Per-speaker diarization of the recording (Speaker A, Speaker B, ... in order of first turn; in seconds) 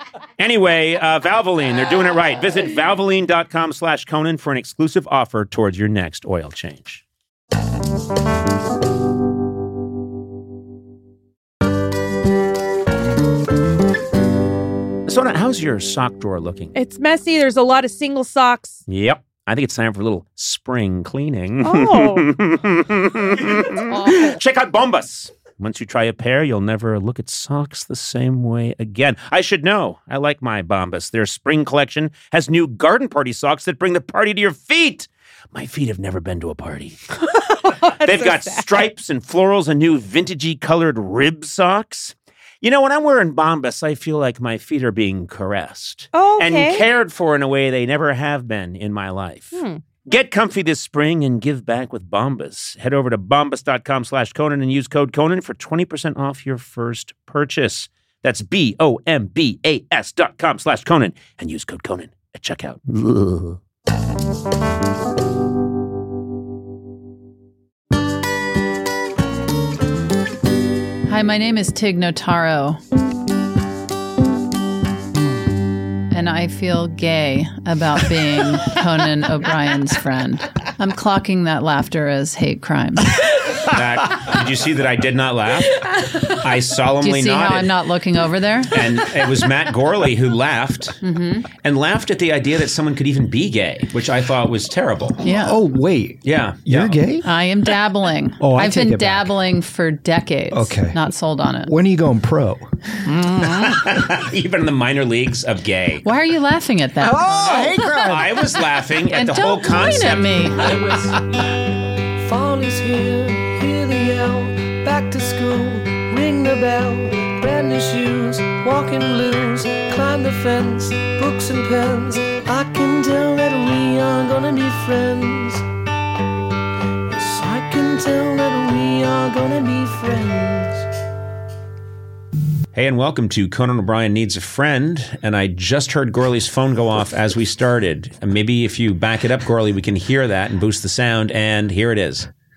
Speaker A: 0.4-7.0, 15.1-16.7, 18.9-37.0, 38.0-63.6, 83.6-87.8, 88.7-91.0, 91.5-95.2, 96.2-97.0, 103.1-106.0, 107.5-110.8, 132.7-142.3
Speaker B: 16.7-18.8, 21.6-22.3, 23.9-24.4, 37.3-38.8, 46.1-46.8, 49.5-49.9
Speaker C: 71.0-72.8, 76.1-83.2, 87.0-88.8, 91.0-91.5, 95.2-95.6, 97.2-101.7, 106.0-107.8, 109.1-110.7
Speaker D: 95.2-97.3, 98.4-99.3, 100.5-101.0, 101.7-102.7, 103.3-103.8, 107.0-108.4
Speaker E: 110.6-111.5, 112.2-125.6, 127.1-130.8